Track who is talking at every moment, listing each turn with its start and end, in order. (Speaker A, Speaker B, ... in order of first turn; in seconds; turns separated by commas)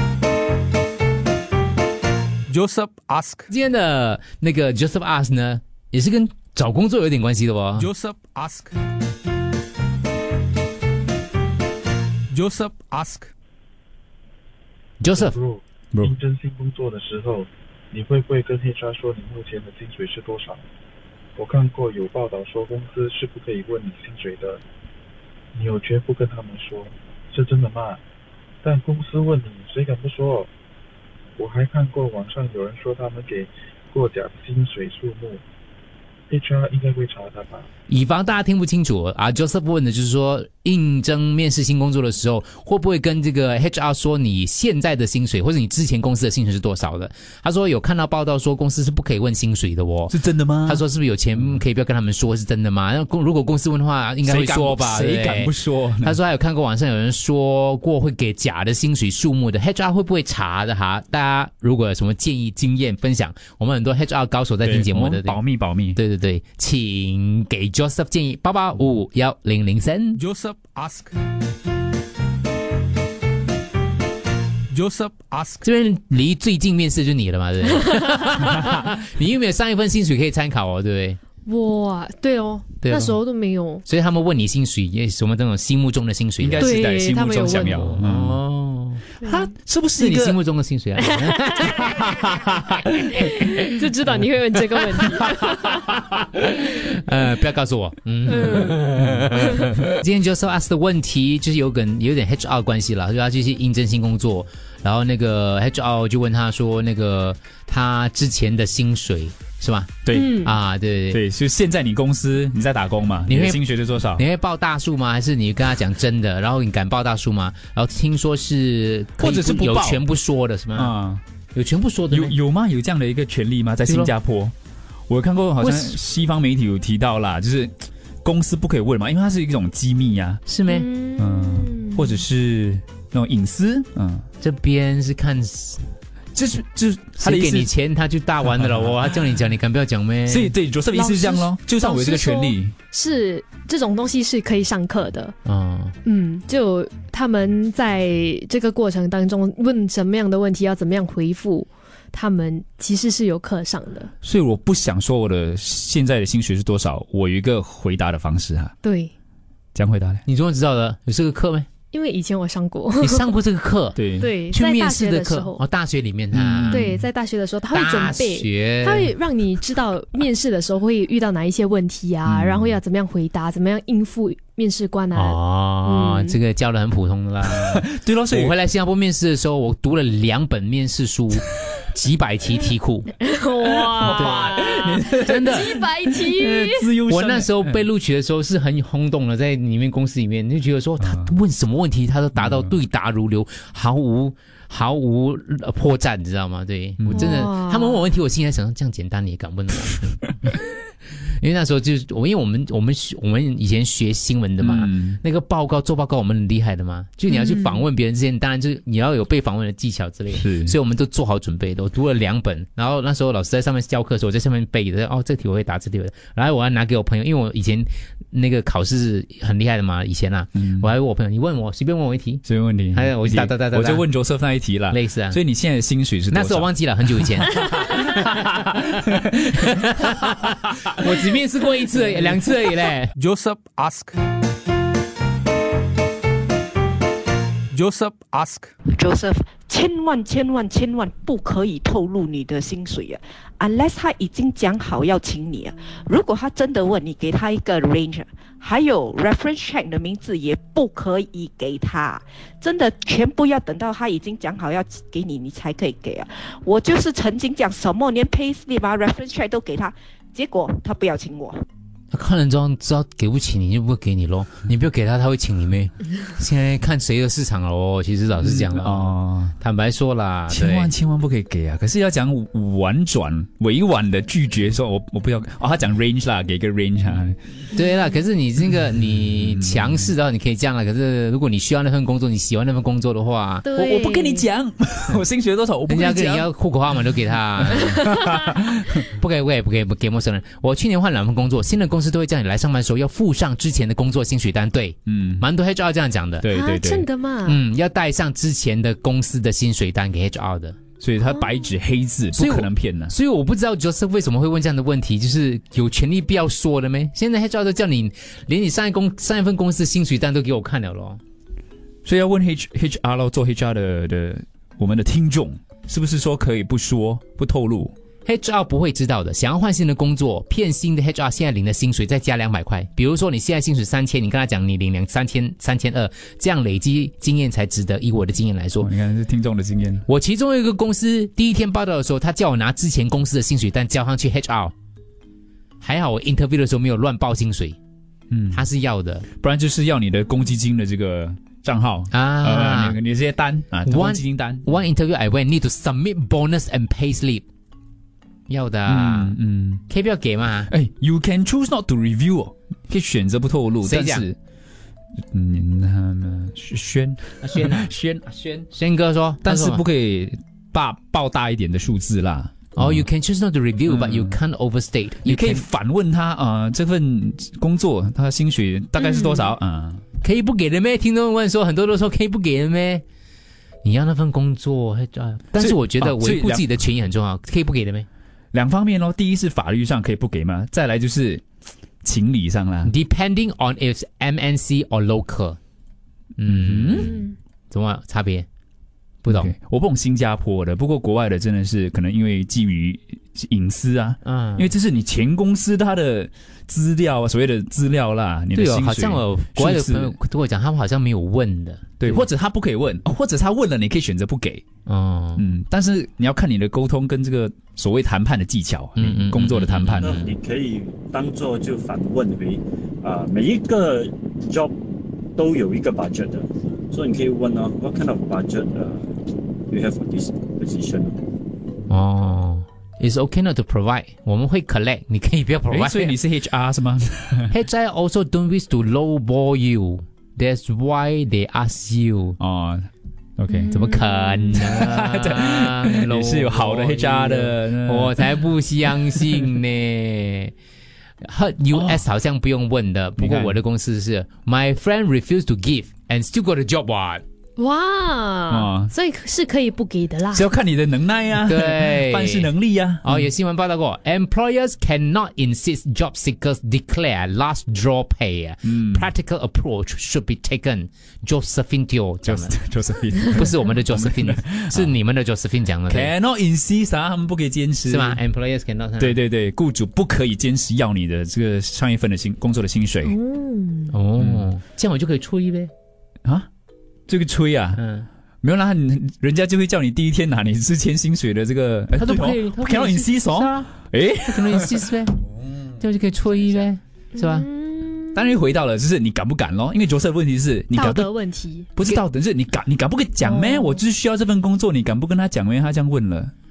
Speaker A: 2.5-3.5, Speaker B: 3.5-7.9, Speaker A: 7.8-8.7, Speaker A: 12.3-13.3, Speaker B: 15.0-15.4, Speaker C: 15.2-20.6, Speaker C: 21.4-24.6, Speaker C: 25.6-28.0, Speaker C: 28.6-30.5, Speaker C: 31.4-35.4, Speaker C: 36.3-37.7, Speaker B: 37.9-65.4, Speaker D: 50.1-50.8, Speaker D: 54.2-56.2, Speaker D: 64.6-66.0, Speaker B: 65.9-70.2, Speaker A: 70.2-71.1, Speaker A: 74.7-75.7, Speaker B: 75.6-81.2, Speaker E: 81.5-83.8, Speaker B: 82.8-83.2, Speaker B: 83.9-86.7, Speaker D: 86.4-88.4, Speaker E: 86.6-87.9, Speaker B: 87.7-89.0, Speaker E: 89.2-89.5, Speaker D: 89.2-90.4, Speaker B: 90.0-92.2, Speaker E: 91.3-91.9, Speaker E: 93.2-96.0, Speaker B: 96.3-111.2, Speaker E: 98.3-99.7, Speaker D: 110.0-110.5, Speaker E: 110.1-110.5, Speaker D: 111.1-114.2, Speaker B: 113.3-113.6, Speaker B: 114.2-120.9, Speaker D: 119.2-120.0, Speaker D: 120.7-121.2, Speaker B: 121.5-122.4, Speaker D: 122.1-124.5, Speaker B: 123.9-124.1, Speaker D: 125.1-130.4, Speaker B: 125.6-126.0, Speaker B: 130.5-130.9, Speaker E: 130.7-132.2, Speaker D: 131.2-134.3, Speaker B: 134.4-135.8, Speaker D: 136.3-137.7, Speaker B: 137.2-140.5, Speaker D: 138.5-138.9, Speaker D: 140.3-142.7, Speaker E: 140.9-145.3, Speaker B: 145.4-145.9, Speaker E: 146.1-154.1, Speaker D: 154.2-158.8, Speaker E: 158.8-159.1, Speaker D: 159.8-160.2, Speaker B: 160.3-161.7, Speaker E: 161.9-163.3, Speaker B: 163.0-166.9, Speaker D: 164.0-164.3, Speaker E: 164.1-165.6, Speaker D: 166.3-167.0, Speaker E: 166.7-176.4, Speaker B: 167.7-169.1, Speaker D: 172.3-172.8, Speaker B: 175.1-183.1, Speaker D: 177.5-178.6, Speaker E: 183.2-186.9, Speaker D: 183.7-187.9, Speaker B: 184.1-184.5, Speaker B: 185.3-185.7, Speaker B: 187.1-200.6, Speaker D: 191.0-191.4, Speaker D: 192.4-192.7, Speaker D: 197.0-197.4, Speaker E: 197.1-198.0, Speaker B: 201.2-224.1, Speaker D: 204.6-205.2, Speaker E: 207.3-207.9, Speaker D: 210.3-210.8, Speaker D: 220.6-220.9, Speaker D: 222.4-227.9, Speaker B: 224.9-225.4, Speaker B: 226.3-228.9, Speaker B: 229.6-233.1, Speaker A: 233.2-234.2, Speaker A: 237.7-238.7, Speaker F: 238.9-261.7, Speaker B: 262.1-270.9, Speaker D: 268.4-269.6, Speaker D: 270.5-277.4, Speaker B: 277.7-283.7, Speaker D: 279.6-280.1, Speaker E: 283.6-284.5, Speaker D: 283.7-286.5, Speaker B: 285.9-288.1, Speaker D: 287.7-288.8, Speaker B: 289.1-296.5, Speaker D: 295.1-295.5, Speaker D: 296.4-297.1, Speaker E: 296.5-297.6, Speaker B: 297.4-300.8, Speaker D: 301.0-303.1, Speaker E: 301.2-301.7, Speaker B: 302.4-311.2, Speaker D: 312.1-317.9, Speaker B: 318.3-328.9, Speaker D: 328.8-330.1, Speaker B: 330.1-334.7, Speaker B: 335.8-337.8, Speaker D: 338.3-338.7, Speaker B: 338.5-339.3, Speaker D: 339.3-344.6, Speaker B: 342.1-343.0, Speaker B: 343.9-347.4, Speaker B: 348.5-349.4, Speaker D: 348.9-349.8, Speaker B: 349.9-350.7, Speaker D: 350.7-354.4, Speaker B: 353.8-354.3, Speaker D: 355.3-358.7, Speaker B: 357.4-357.9, Speaker B: 358.7-359.8, Speaker D: 359.4-363.1, Speaker B: 362.8-365.6, Speaker D: 363.9-364.4, Speaker D: 365.2-370.0, Speaker E: 369.0-369.5, Speaker B: 370.2-373.0, Speaker B: 373.8-378.1, Speaker D: 375.6-376.6, Speaker D: 378.5-381.4, Speaker D: 382.0-382.9, Speaker B: 382.9-385.6, Speaker B: 386.4-388.5, Speaker D: 386.5-387.1, Speaker E: 387.0-387.3, Speaker B: 389.2-389.5, Speaker D: 389.3-400.2, Speaker B: 394.2-394.7, Speaker B: 398.5-402.3, Speaker D: 402.0-404.6, Speaker B: 404.9-405.4, Speaker D: 405.4-410.2, Speaker B: 409.0-410.4, Speaker G: 410.0-414.7, Speaker G: 415.4-419.1, Speaker G: 419.7-421.2, Speaker B: 421.9-426.2, Speaker D: 425.7-427.5, Speaker B: 427.5-432.4, Speaker D: 432.4-433.7, Speaker E: 433.5-434.6, Speaker B: 433.7-440.5, Speaker D: 434.5-438.4, Speaker D: 439.1-439.4, Speaker B: 441.2-447.2, Speaker D: 441.7-442.0, Speaker D: 443.2-443.6, Speaker E: 447.6-450.5, Speaker D: 448.5-448.9, Speaker D: 450.3-453.2, Speaker B: 451.5-452.5, Speaker B: 453.0-462.5, Speaker D: 458.7-459.1, Speaker D: 462.2-464.9, Speaker B: 463.3-466.1, Speaker D: 465.9-468.2, Speaker B: 467.9-469.2, Speaker D: 469.0-473.2, Speaker E: 473.0-473.9, Speaker B: 473.9-475.7, Speaker D: 474.2-474.5, Speaker D: 477.1-477.8, Speaker B: 477.8-478.1, Speaker D: 478.4-484.9, Speaker B: 482.0-483.7, Speaker B: 484.3-485.2, Speaker B: 485.8-487.5, Speaker E: 487.2-488.3, Speaker D: 488.1-491.1, Speaker E: 490.7-491.7, Speaker D: 491.8-496.3, Speaker E: 493.2-493.8